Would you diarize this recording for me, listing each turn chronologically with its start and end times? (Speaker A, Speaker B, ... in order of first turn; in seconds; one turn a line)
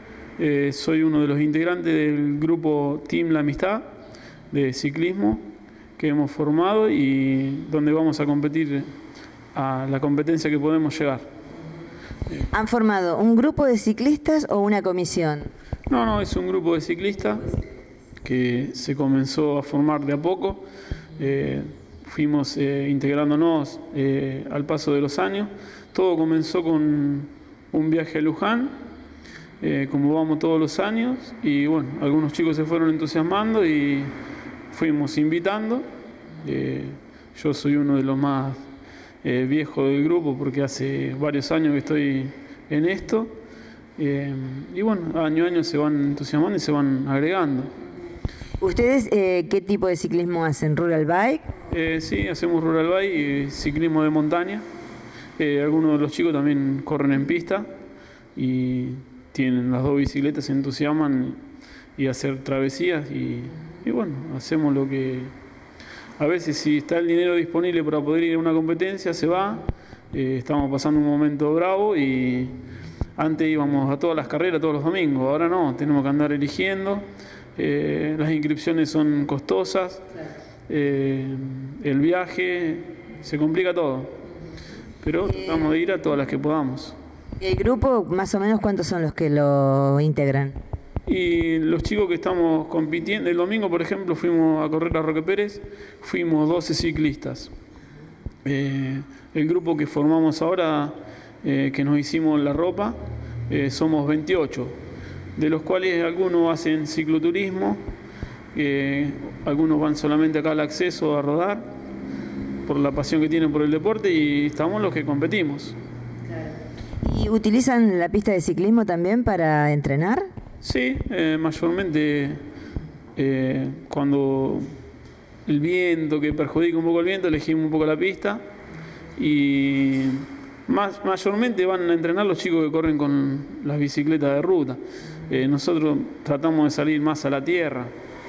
Speaker A: 0.4-3.9
Speaker A: 4.5-5.4
Speaker A: 6.0-8.9
Speaker A: 9.5-11.3
Speaker B: 12.5-15.5
Speaker A: 15.9-17.6
Speaker A: 18.2-28.8
Speaker A: 29.6-34.1
Speaker A: 34.7-35.8
Speaker A: 36.4-38.6
Speaker A: 39.2-43.3
Speaker A: 44.0-47.7
Speaker B: 48.6-51.5
Speaker A: 51.7-54.6
Speaker A: 55.4-57.7
Speaker A: 58.3-61.4
Speaker A: 62.0-65.3
Speaker A: 66.2-72.5
Speaker A: 73.2-80.1
Speaker A: 80.7-84.2
Speaker A: 85.0-87.0
Speaker B: 87.4-90.6
Speaker A: 91.0-97.5
Speaker A: 98.4-104.8
Speaker A: 105.3-107.8
Speaker A: 108.5-111.7
Speaker A: 112.6-115.8
Speaker B: 117.0-120.3
Speaker A: 120.6-122.4
Speaker A: 123.2-124.7
Speaker A: 125.5-128.4
Speaker A: 129.2-137.9